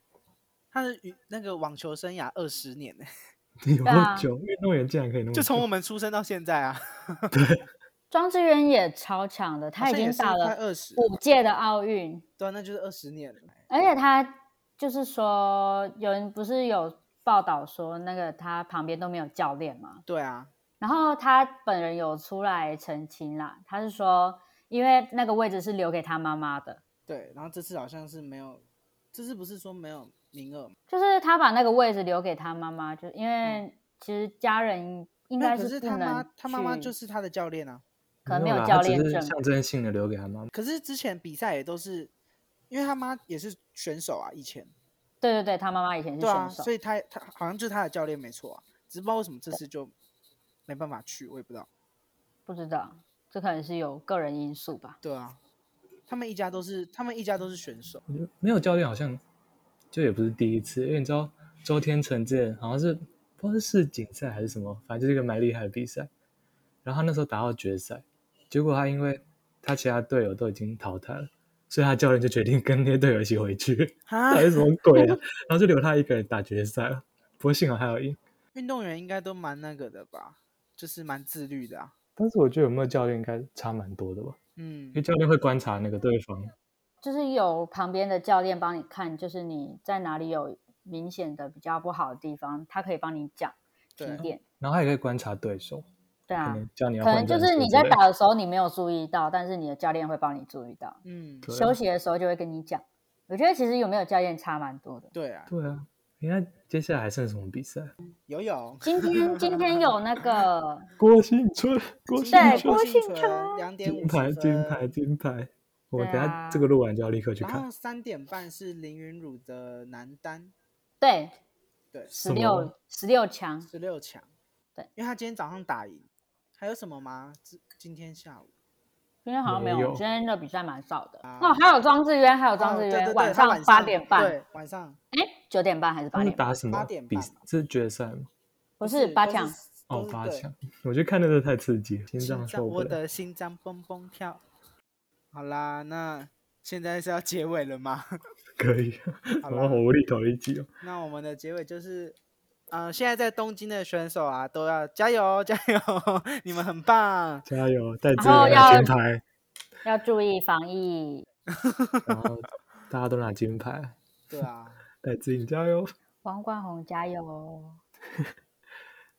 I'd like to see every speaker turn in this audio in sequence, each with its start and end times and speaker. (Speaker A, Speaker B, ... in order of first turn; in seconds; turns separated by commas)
Speaker A: 0.7-3.1, Speaker B: 3.6-5.7, Speaker C: 3.8-4.3, Speaker A: 5.3-7.3, Speaker B: 7.3-7.6, Speaker C: 8.1-12.2, Speaker A: 9.8-11.0, Speaker A: 12.4-13.6, Speaker C: 13.7-20.0, Speaker A: 20.1-20.5, Speaker C: 20.8-26.8, Speaker A: 27.1-28.6, Speaker A: 29.1-30.7, Speaker C: 30.9-36.9, Speaker A: 35.4-37.8, Speaker B: 38.2-40.5, Speaker C: 38.3-39.4, Speaker A: 40.5-42.1, Speaker A: 42.7-44.7, Speaker C: 45.2-46.7, Speaker A: 46.2-49.9, Speaker A: 50.7-51.7, Speaker C: 52.5-55.0, Speaker A: 55.0-55.4, Speaker A: 56.1-58.0, Speaker B: 58.1-59.2, Speaker B: 59.9-66.1, Speaker B: 66.8-78.2, Speaker A: 74.1-74.7, Speaker A: 78.5-81.9, Speaker B: 82.2-84.4, Speaker A: 84.6-85.0, Speaker B: 84.9-86.5, Speaker C: 87.0-94.4, Speaker A: 94.0-94.2, Speaker B: 94.6-95.9, Speaker C: 96.3-105.1, Speaker B: 96.4-98.0, Speaker A: 101.0-101.5, Speaker B: 101.5-101.8, Speaker A: 105.1-105.5, Speaker B: 105.5-107.9, Speaker A: 108.3-109.7, Speaker C: 108.8-110.8, Speaker B: 111.0-112.8, Speaker A: 112.2-114.9, Speaker C: 112.3-113.6, Speaker B: 113.8-117.6, Speaker C: 116.0-116.7, Speaker A: 117.4-120.5, Speaker C: 121.0-121.3, Speaker C: 122.1-123.7, Speaker B: 122.2-122.7, Speaker A: 123.6-124.3, Speaker A: 125.0-126.1, Speaker A: 126.6-128.5, Speaker C: 129.2-134.4, Speaker B: 129.4-130.0, Speaker A: 131.2-131.6, Speaker A: 132.6-135.0, Speaker C: 135.1-136.5, Speaker B: 136.1-138.3, Speaker A: 136.7-137.4, Speaker C: 138.8-139.5, Speaker A: 138.8-140.4, Speaker B: 139.9-143.0, Speaker A: 142.2-144.4, Speaker A: 145.3-148.1, Speaker B: 148.6-150.7, Speaker A: 149.4-149.8, Speaker A: 150.8-152.2, Speaker A: 152.7-157.4, Speaker B: 157.4-159.2, Speaker C: 158.2-158.9, Speaker A: 158.2-158.9, Speaker C: 159.8-161.2, Speaker B: 162.1-164.0, Speaker A: 164.3-164.8, Speaker B: 165.0-165.9, Speaker C: 166.2-167.8